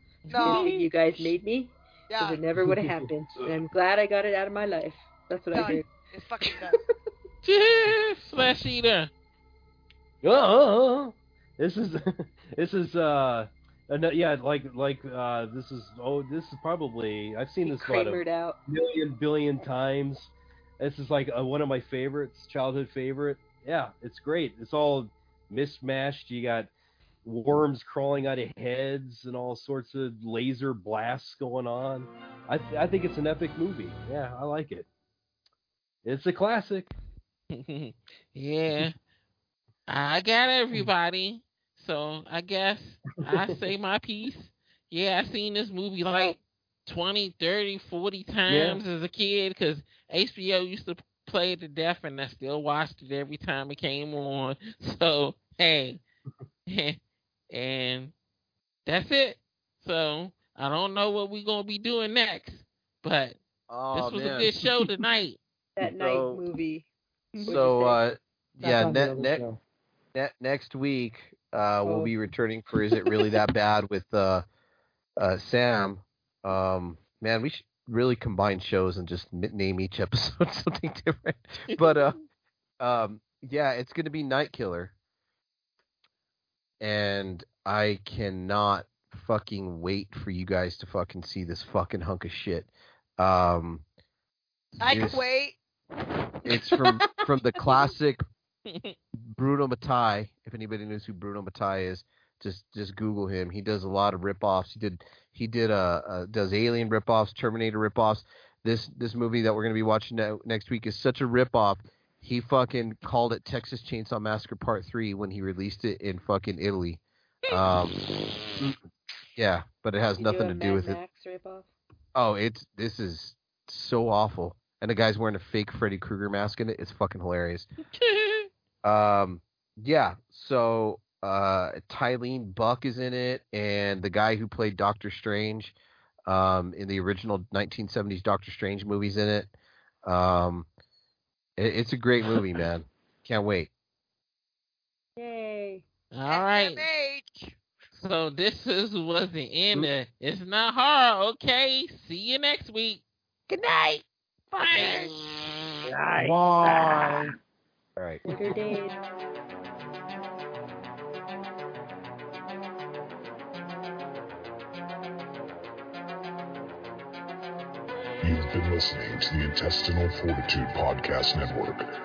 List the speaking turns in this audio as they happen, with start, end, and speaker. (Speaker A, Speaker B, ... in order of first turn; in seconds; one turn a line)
Speaker A: 0.3-0.7
Speaker B: 0.3-0.9
Speaker C: 0.4-5.9
Speaker B: 2.1-2.4
Speaker D: 2.7-3.5
Speaker B: 5.5-6.8
Speaker A: 7.4-9.1
Speaker D: 10.2-26.7
Speaker C: 17.6-18.6
Speaker D: 27.2-34.9
Speaker D: 36.0-36.9
Speaker A: 37.5-39.0
Speaker A: 39.9-56.0
Speaker D: 43.2-43.5
Speaker D: 48.5-48.8
Speaker A: 56.7-57.0
Speaker A: 57.5-58.1
Speaker A: 58.9-63.4
Speaker E: 63.7-64.5
Speaker A: 63.9-65.4
Speaker C: 65.8-66.9
Speaker D: 65.8-66.4
Speaker E: 67.4-69.4
Speaker C: 67.4-68.0
Speaker F: 68.6-69.6
Speaker E: 70.1-74.5
Speaker C: 71.8-72.1
Speaker E: 75.2-82.2
Speaker A: 81.7-82.1
Speaker E: 82.8-84.9
Speaker E: 86.8-93.8
Speaker B: 94.8-95.6
Speaker E: 94.8-95.2
Speaker E: 96.5-98.2
Speaker E: 99.3-118.0
Speaker E: 119.4-121.0
Speaker C: 120.2-121.7
Speaker E: 122.2-127.7
Speaker E: 128.8-135.8
Speaker E: 136.3-139.5
Speaker E: 140.1-140.7
Speaker E: 141.6-143.7
Speaker C: 145.2-145.8
Speaker A: 146.1-146.8
Speaker B: 146.3-147.6
Speaker A: 147.9-153.0
Speaker E: 153.5-155.1
Speaker A: 154.6-155.7
Speaker E: 155.8-157.2
Speaker F: 156.2-157.3
Speaker E: 158.0-158.2
Speaker C: 158.2-159.0
Speaker G: 168.2-171.8